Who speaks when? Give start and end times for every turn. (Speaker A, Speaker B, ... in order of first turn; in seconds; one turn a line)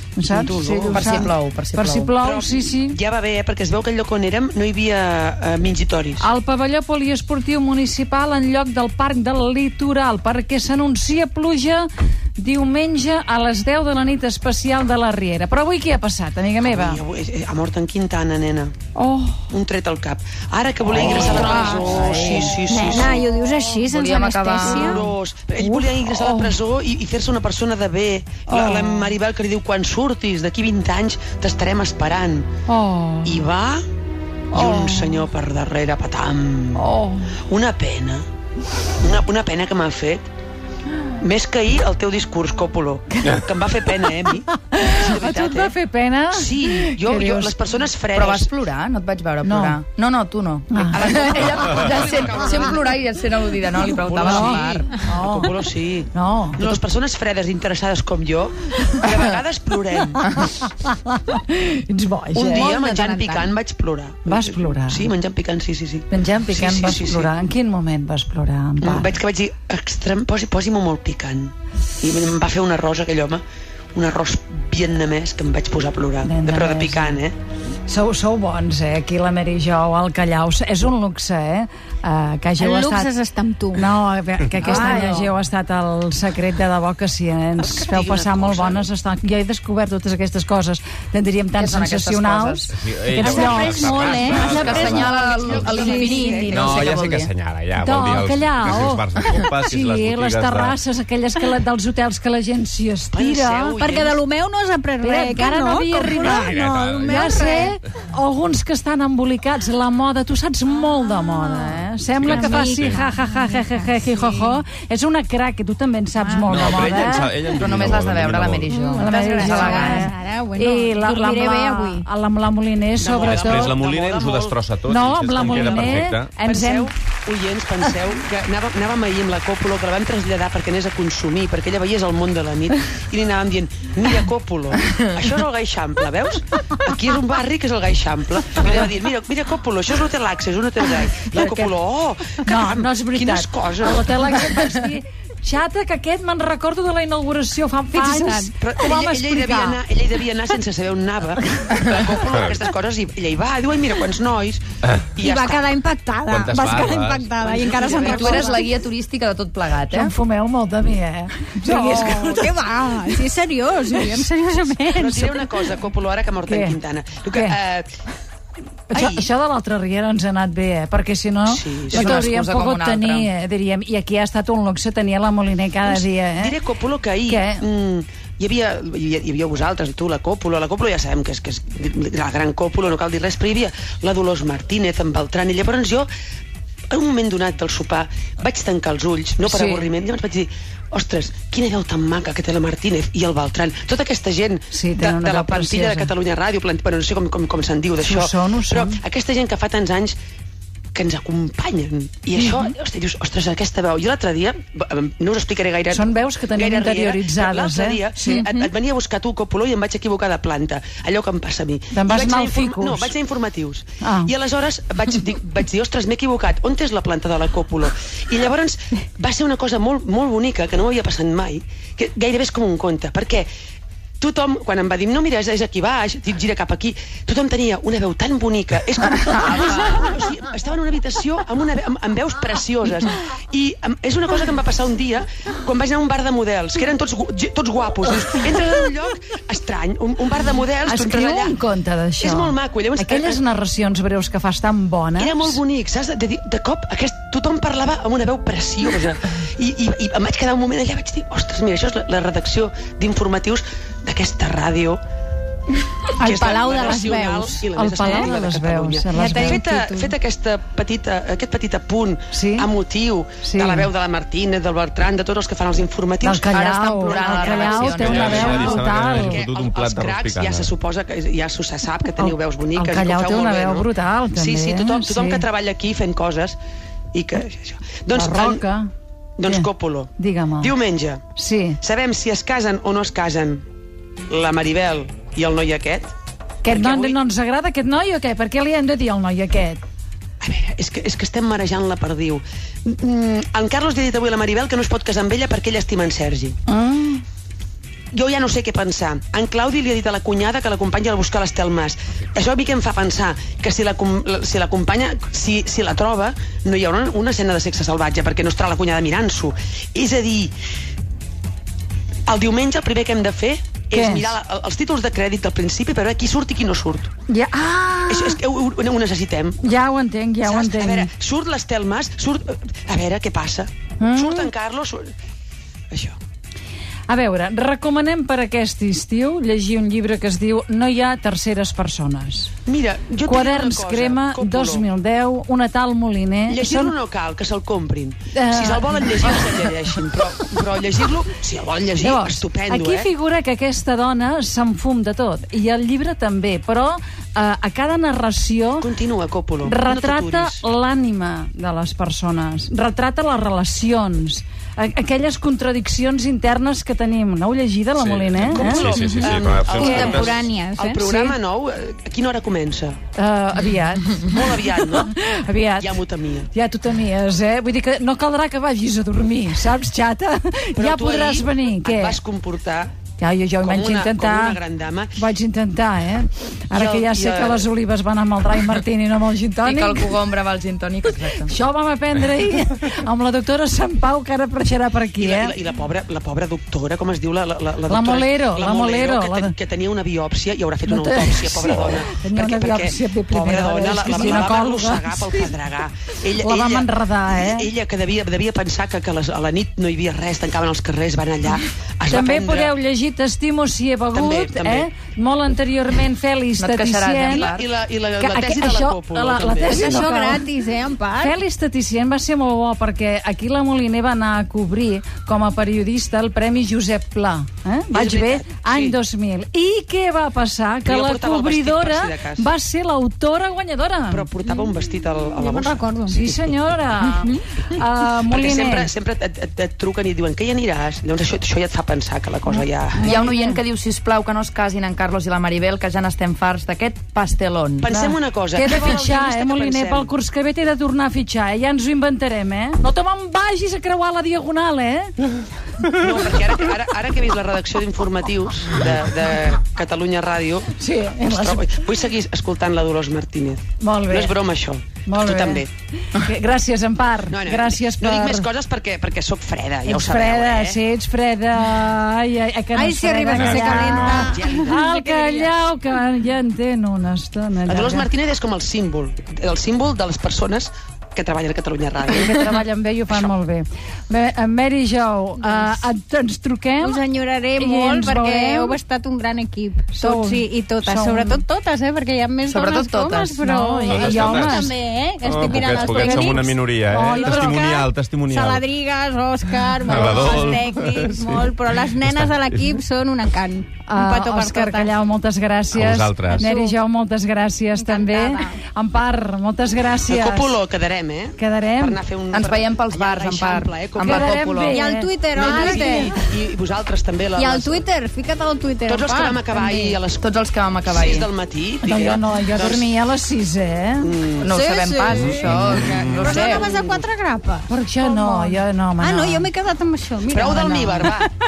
Speaker A: 0.1-3.0
Speaker B: 0.3-1.1
Speaker C: 0.9-2.1
Speaker B: 2.2-6.3
Speaker A: 6.2-17.0
Speaker B: 16.6-18.7
Speaker A: 18.9-19.5
Speaker B: 19.5-23.3
Speaker C: 20.9-23.0
Speaker D: 21.1-25.0
Speaker C: 23.8-24.9
Speaker B: 24.6-32.5
Speaker A: 25.6-26.6
Speaker A: 28.5-29.1
Speaker A: 32.7-33.5
Speaker B: 33.2-33.8
Speaker B: 34.5-36.9
Speaker A: 34.5-35.3
Speaker A: 36.7-37.4
Speaker B: 37.5-38.2
Speaker B: 39.0-40.3
Speaker B: 41.2-45.7
Speaker A: 44.5-47.5
Speaker B: 46.3-48.5
Speaker C: 48.1-54.9
Speaker A: 49.4-49.8
Speaker A: 50.7-51.4
Speaker B: 50.9-52.8
Speaker B: 53.8-60.2
Speaker A: 54.2-55.5
Speaker A: 56.1-56.8
Speaker A: 60.2-62.7
Speaker C: 60.3-60.6
Speaker B: 62.3-67.3
Speaker D: 62.5-63.5
Speaker A: 64.2-65.1
Speaker A: 66.1-69.2
Speaker B: 68.8-73.4
Speaker B: 73.9-77.3
Speaker A: 76.2-77.2
Speaker A: 77.8-83.1
Speaker D: 82.6-84.0
Speaker A: 83.7-96.6
Speaker D: 84.6-85.2
Speaker C: 84.6-85.2
Speaker B: 87.6-88.8
Speaker C: 91.6-92.7
Speaker E: 92.7-95.9
Speaker D: 93.2-96.6
Speaker C: 94.3-97.3
Speaker B: 95.5-96.7
Speaker E: 96.5-100.8
Speaker A: 97.8-103.8
Speaker B: 103.1-104.2
Speaker D: 103.8-107.8
Speaker A: 105.0-117.3
Speaker E: 106.2-107.6
Speaker D: 111.0-114.6
Speaker E: 112.1-113.0
Speaker D: 116.1-117.0
Speaker E: 116.5-118.7
Speaker C: 117.5-120.1
Speaker D: 118.7-122.0
Speaker A: 118.8-123.7
Speaker B: 123.0-124.6
Speaker E: 123.2-126.3
Speaker A: 124.9-126.9
Speaker B: 125.4-144.4
Speaker A: 141.3-141.7
Speaker A: 142.4-149.8
Speaker D: 147.9-148.5
Speaker B: 148.6-155.7
Speaker D: 155.2-158.6
Speaker E: 156.3-157.5
Speaker B: 157.4-158.6
Speaker C: 157.9-160.1
Speaker A: 159.9-162.6
Speaker D: 161.6-165.5
Speaker B: 164.9-167.9
Speaker A: 166.4-166.8
Speaker A: 167.3-167.6
Speaker A: 168.9-176.6
Speaker B: 168.9-169.3
Speaker B: 171.5-172.3
Speaker C: 171.9-173.3
Speaker B: 175.8-186.1
Speaker A: 177.3-177.6
Speaker B: 186.9-200.2
Speaker A: 189.4-189.9
Speaker A: 194.7-196.1
Speaker A: 198.0-199.0
Speaker B: 200.9-223.5
Speaker A: 202.3-202.7
Speaker A: 205.9-208.4
Speaker D: 208.2-208.7
Speaker A: 211.9-213.1
Speaker A: 214.0-214.3
Speaker B: 224.2-241.6
Speaker A: 240.8-245.6
Speaker B: 242.2-243.4
Speaker B: 245.2-255.0
Speaker D: 256.2-258.3
Speaker B: 256.2-266.5
Speaker A: 257.7-259.6
Speaker D: 259.1-260.1
Speaker A: 262.3-262.7
Speaker A: 263.4-263.9
Speaker A: 266.2-269.4
Speaker C: 266.4-268.8
Speaker B: 267.2-276.6
Speaker E: 267.4-270.7
Speaker A: 272.2-275.4
Speaker B: 277.1-278.6
Speaker A: 278.1-278.9
Speaker B: 279.4-281.2
Speaker A: 280.2-280.7
Speaker A: 281.4-281.8
Speaker B: 281.8-283.6
Speaker B: 284.3-286.1
Speaker B: 286.6-287.2
Speaker A: 286.6-289.8
Speaker B: 290.4-296.6
Speaker A: 296.7-297.2
Speaker B: 298.1-310.5
Speaker B: 312.3-317.1
Speaker A: 313.9-314.4
Speaker A: 317.3-318.4
Speaker B: 318.1-319.7
Speaker A: 319.6-321.1
Speaker B: 320.4-325.1
Speaker A: 324.0-324.5
Speaker B: 325.9-326.2
Speaker A: 327.1-332.5
Speaker B: 332.6-334.9
Speaker A: 333.2-336.9
Speaker B: 336.5-343.1
Speaker A: 338.3-339.2
Speaker A: 342.0-348.9
Speaker B: 348.8-350.6
Speaker A: 349.6-358.9
Speaker E: 357.9-360.4
Speaker B: 358.4-363.0
Speaker D: 358.9-361.4
Speaker A: 359.8-360.1
Speaker A: 363.1-372.2
Speaker B: 364.1-365.1
Speaker B: 365.8-366.5
Speaker B: 370.7-372.9
Speaker A: 373.2-374.6
Speaker B: 373.6-375.2
Speaker A: 375.1-380.2
Speaker B: 376.7-377.7
Speaker C: 379.6-381.5
Speaker A: 381.4-385.6
Speaker B: 385.2-402.7
Speaker A: 387.9-389.5
Speaker A: 390.9-395.5
Speaker A: 396.4-397.7
Speaker A: 402.1-407.5
Speaker B: 404.1-404.9
Speaker C: 406.6-407.7
Speaker B: 407.2-410.0
Speaker A: 408.2-410.4
Speaker D: 409.6-411.3
Speaker A: 411.2-424.3
Speaker B: 417.9-419.0
Speaker B: 420.8-422.5
Speaker B: 424.1-426.5
Speaker D: 424.5-424.7
Speaker D: 425.3-426.2
Speaker A: 426.1-428.9
Speaker D: 427.0-427.4
Speaker B: 428.3-433.1
Speaker A: 432.5-433.6
Speaker C: 433.0-437.9
Speaker B: 437.8-440.1
Speaker A: 437.9-445.1
Speaker B: 445.8-455.7
Speaker A: 450.8-451.8
Speaker A: 453.8-454.3
Speaker A: 455.1-458.5
Speaker B: 457.3-460.8
Speaker A: 459.8-468.1
Speaker D: 462.7-465.6
Speaker E: 463.3-464.3
Speaker B: 464.1-464.8
Speaker B: 467.6-472.4
Speaker A: 472.1-477.0
Speaker D: 475.4-475.7
Speaker D: 476.8-494.9
Speaker A: 477.6-478.8
Speaker A: 479.9-481.4
Speaker C: 482.5-483.4
Speaker A: 483.4-484.7
Speaker E: 483.9-488.6
Speaker A: 485.9-486.4
Speaker A: 486.9-487.6
Speaker E: 489.8-492.7
Speaker A: 493.9-500.6
Speaker E: 495.7-496.4
Speaker D: 496.3-496.8
Speaker D: 497.8-498.6
Speaker B: 500.1-504.4
Speaker A: 501.4-502.0
Speaker C: 502.3-504.8
Speaker A: 504.0-506.1
Speaker D: 504.7-506.1
Speaker B: 505.3-507.8
Speaker D: 507.3-510.0
Speaker B: 508.9-510.3
Speaker C: 510.2-511.3
Speaker B: 510.9-512.9
Speaker A: 511.8-514.1
Speaker B: 514.0-514.5
Speaker C: 514.4-516.8
Speaker D: 514.5-521.3
Speaker E: 515.0-516.6
Speaker B: 516.4-517.0
Speaker A: 517.7-519.5
Speaker B: 520.3-521.3